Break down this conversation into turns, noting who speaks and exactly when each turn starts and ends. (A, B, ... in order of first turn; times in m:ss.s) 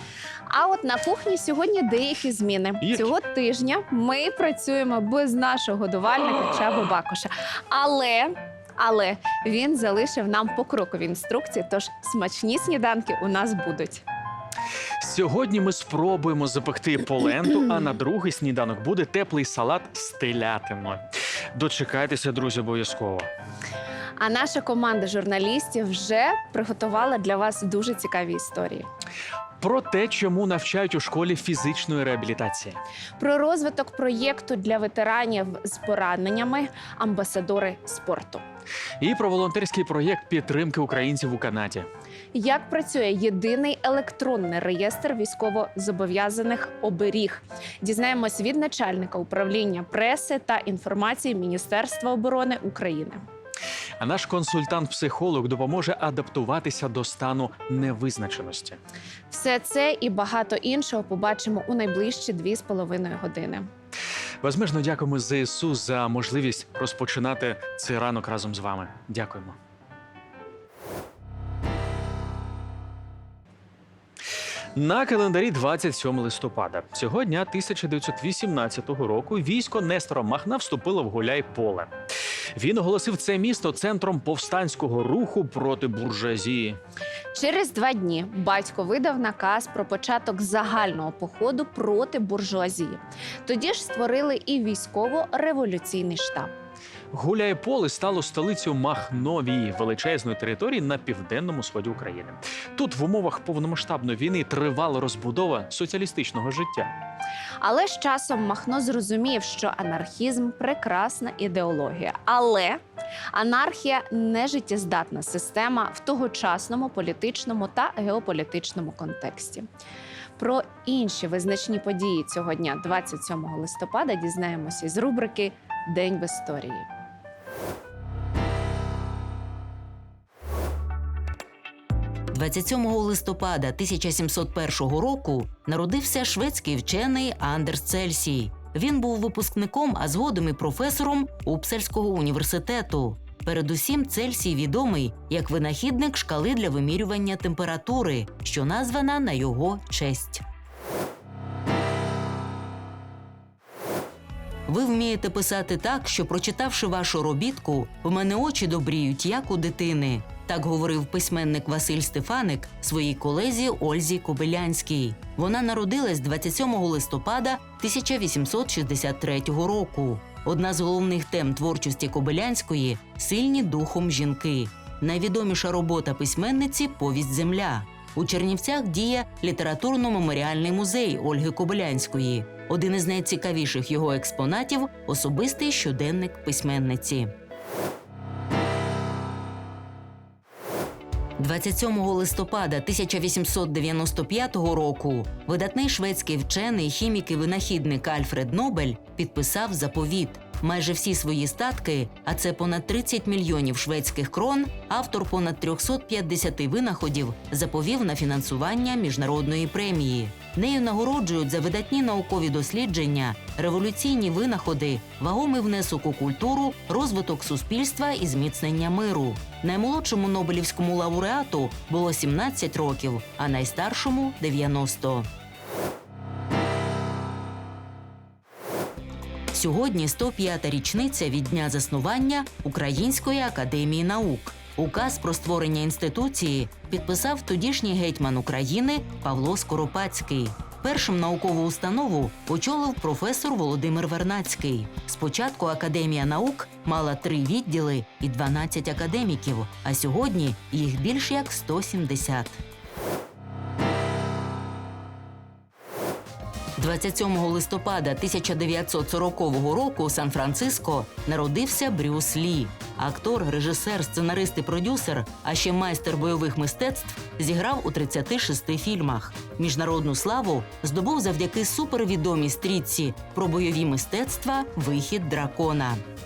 0:00.5-0:14.0 A
0:02.8-0:03.1 B
0:15.0-0:21.0 B
0:21.6-0:23.3 B
0:24.2-0:28.9 A
0:29.6-0:32.8 B
0:33.2-0:38.4 A
0:39.0-0:41.9 B
0:42.3-0:53.2 A
0:54.0-0:58.8 B
0:59.3-1:03.7 A
1:04.4-1:09.6 B
1:14.8-1:21.9 B
1:22.6-1:26.8 B
1:27.3-1:36.5 A
1:37.1-1:46.9 B
1:47.6-1:52.8 A
1:53.3-1:59.7 A
2:00.4-2:06.9 A
2:12.3-2:30.4 C
2:34.7-3:07.3 C
3:11.4-3:45.3 C
3:49.5-4:12.6 C
4:16.8-4:36.0 C